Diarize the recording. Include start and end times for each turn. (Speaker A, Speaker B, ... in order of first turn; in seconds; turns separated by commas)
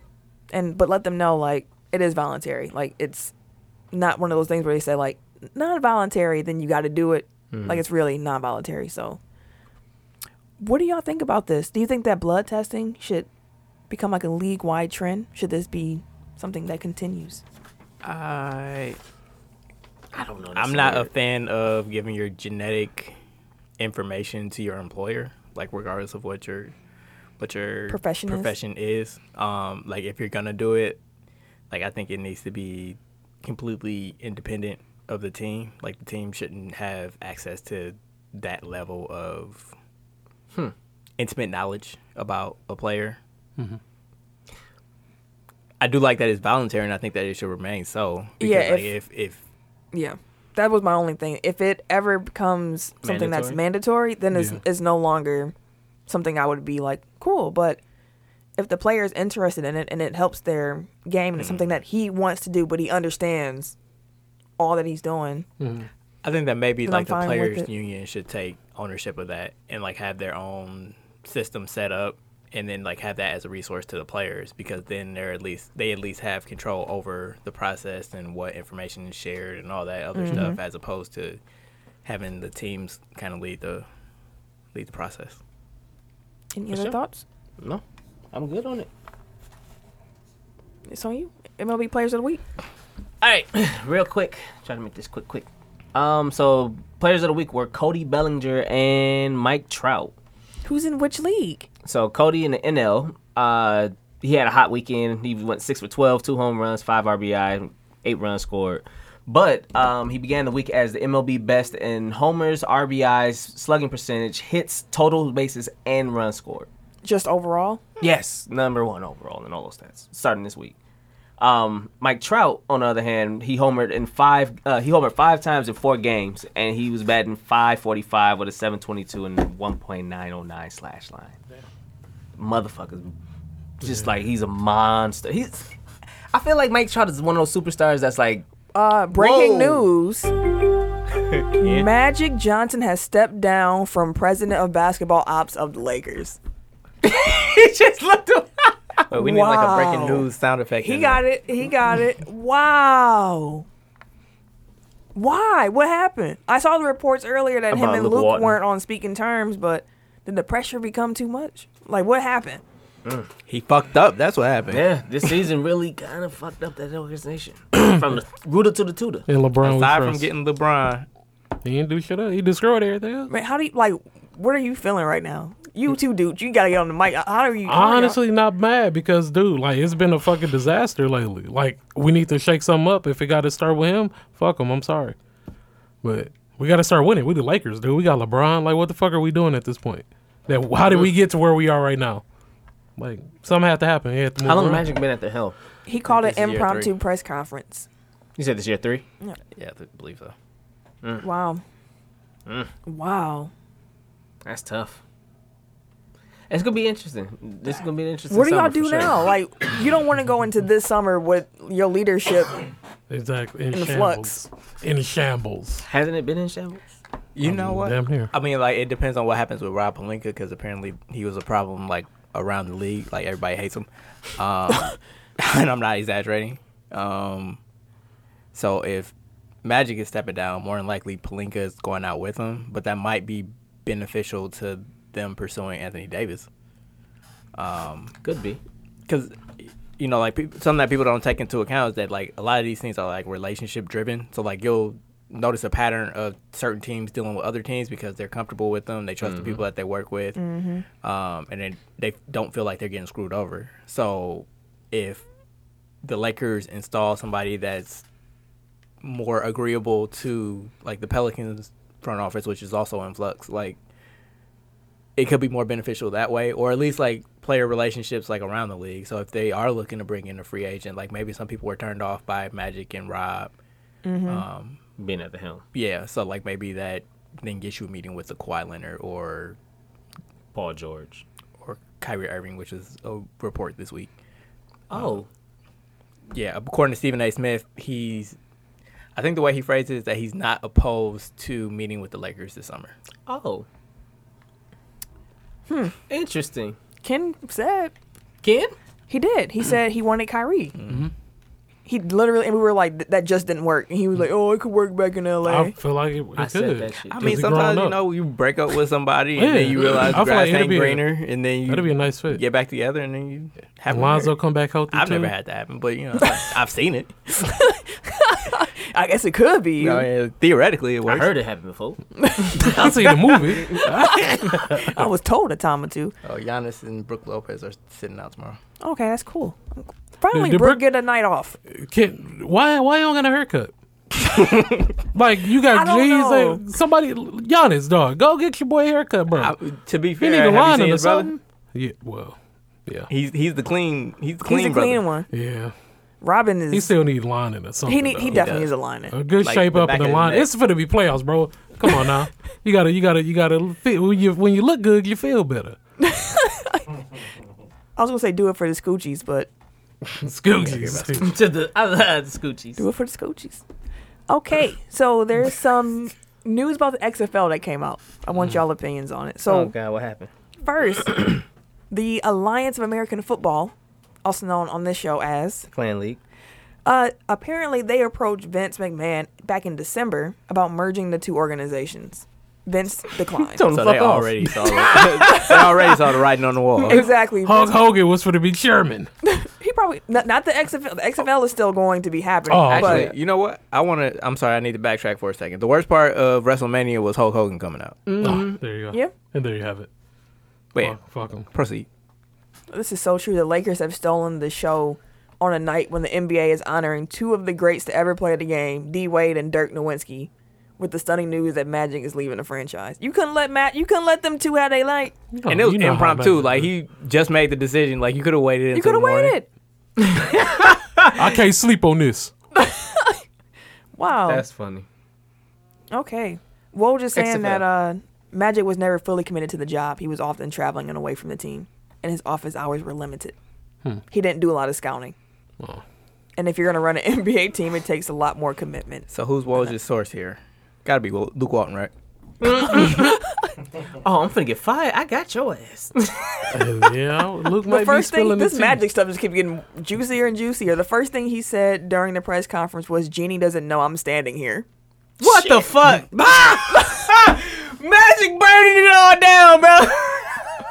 Speaker A: 0.5-3.3, Speaker A: 3.9-9.2, Speaker B: 7.5-7.8, Speaker A: 10.6-13.3, Speaker A: 13.9-17.4, Speaker C: 18.0-19.0, Speaker B: 20.1-21.1, Speaker C: 20.5-23.1, Speaker C: 23.8-26.7, Speaker C: 27.4-31.0, Speaker A: 27.9-28.5, Speaker C: 31.7-39.7, Speaker C: 41.2-43.2, Speaker C: 45.8-49.4, Speaker A: 48.4-48.9, Speaker A: 49.9-55.5, Speaker B: 53.0-53.6, Speaker D: 54.3-54.6, Speaker A: 56.1-57.8, Speaker A: 58.6-63.7, Speaker C: 61.4-61.6, Speaker A: 64.6-65.5, Speaker D: 65.6-65.9, Speaker C: 66.2-81.4, Speaker A: 66.8-67.7, Speaker A: 80.1-80.6, Speaker C: 82.0-83.8, Speaker C: 84.7-85.4, Speaker A: 86.5-87.2, Speaker B: 88.3-88.9, Speaker A: 90.9-92.4, Speaker B: 93.2-100.1, Speaker A: 100.6-101.7, Speaker B: 101.8-116.7, Speaker A: 117.0-117.8, Speaker B: 118.0-120.7, Speaker B: 121.4-131.4, Speaker B: 132.4-133.1, Speaker B: 133.8-135.7, Speaker B: 136.3-138.4, Speaker A: 138.7-140.3, Speaker B: 139.1-139.9, Speaker C: 141.3-141.9, Speaker A: 141.6-146.4, Speaker B: 147.0-148.8, Speaker C: 149.1-151.2, Speaker A: 149.1-150.3, Speaker A: 150.8-153.7, Speaker A: 155.1-162.6, Speaker B: 157.7-158.6, Speaker C: 163.5-164.8, Speaker B: 164.7-169.2, Speaker D: 169.3-170.3, Speaker C: 169.6-171.1, Speaker D: 171.6-173.3, Speaker A: 173.3-178.2, Speaker D: 177.7-185.2, Speaker D: 186.0-192.2, Speaker D: 193.0-194.8, Speaker B: 194.4-195.5, Speaker A: 195.8-197.8, Speaker C: 196.1-196.9, Speaker B: 198.4-199.0, Speaker C: 199.6-200.3, Speaker A: 201.2-201.6, Speaker A: 202.8-203.5, Speaker B: 204.4-205.0, Speaker B: 206.5-209.3, Speaker A: 208.3-212.7, Speaker D: 213.1-215.8, Speaker A: 213.7-214.3, Speaker B: 215.8-216.8, Speaker C: 217.3-227.6, Speaker D: 217.4-218.3, Speaker C: 228.5-229.1, Speaker C: 229.6-236.5, Speaker C: 237.5-238.1, Speaker B: 238.2-238.6, Speaker C: 239.1-250.4, Speaker B: 249.2-249.6, Speaker A: 250.3-250.8, Speaker C: 251.0-255.2, Speaker C: 256.0-258.0, Speaker C: 259.0-263.8, Speaker C: 265.1-273.5, Speaker A: 274.0-274.4, Speaker C: 274.2-274.8, Speaker B: 275.0-275.6, Speaker C: 275.7-279.6, Speaker B: 280.5-281.2, Speaker C: 281.6-284.1, Speaker B: 284.9-285.3, Speaker C: 284.9-285.2, Speaker C: 286.3-288.4, Speaker C: 289.1-292.9, Speaker B: 293.3-293.6, Speaker A: 295.7-295.9, Speaker B: 296.1-296.8, Speaker A: 297.0-297.9, Speaker B: 298.4-298.7, Speaker A: 299.1-300.8, Speaker C: 300.8-301.1, Speaker A: 301.9-305.7, Speaker D: 305.4-308.0, Speaker B: 306.4-307.4, Speaker C: 307.1-314.4, Speaker D: 309.4-312.4, Speaker D: 313.9-315.3, Speaker C: 314.9-317.1, Speaker A: 317.3-320.1, Speaker C: 319.8-321.3, Speaker B: 321.1-322.0, Speaker A: 322.2-322.9, Speaker D: 322.6-325.0, Speaker A: 323.8-326.1, Speaker C: 326.2-328.6, Speaker A: 328.8-331.6, Speaker D: 330.3-330.8, Speaker D: 331.7-333.7, Speaker D: 335.1-339.6, Speaker A: 335.7-336.6, Speaker C: 339.3-341.3, Speaker D: 340.2-342.4, Speaker C: 343.1-345.0, Speaker A: 344.4-345.3, Speaker D: 345.3-345.7, Speaker A: 346.2-346.9, Speaker D: 346.7-348.5, Speaker A: 347.9-349.1, Speaker C: 348.2-348.7, Speaker D: 349.1-355.8, Speaker C: 349.4-350.5, Speaker A: 356.0-356.9, Speaker A: 357.9-359.5, Speaker D: 360.2-361.4, Speaker C: 360.5-361.2, Speaker B: 361.2-362.8, Speaker A: 362.8-363.6, Speaker A: 364.3-369.7, Speaker B: 369.5-370.3, Speaker A: 370.6-373.7, Speaker A: 374.2-375.7, Speaker B: 375.7-376.2, Speaker A: 376.8-383.6, Speaker B: 383.4-385.5, Speaker C: 383.7-387.1, Speaker A: 384.9-385.6, Speaker A: 386.8-387.8, Speaker D: 387.4-389.1, Speaker A: 389.2-393.1, Speaker D: 392.5-393.1, Speaker C: 392.7-398.0, Speaker B: 398.1-398.6, Speaker D: 398.2-399.9, Speaker D: 400.8-401.5, Speaker C: 401.5-401.9, Speaker A: 402.7-415.2, Speaker D: 415.3-416.7, Speaker C: 415.4-419.4, Speaker A: 418.7-419.5, Speaker B: 420.1-420.5, Speaker D: 421.1-422.3, Speaker A: 422.6-423.2, Speaker A: 423.9-424.4, Speaker B: 424.2-424.9, Speaker A: 425.9-433.4, Speaker B: 427.1-427.6, Speaker A: 434.1-435.1, Speaker A: 436.4-439.1, Speaker C: 439.1-441.9, Speaker B: 442.4-443.1, Speaker B: 444.0-446.1, Speaker D: 446.5-448.8, Speaker A: 447.6-454.6, Speaker B: 455.2-460.4, Speaker A: 455.2-457.1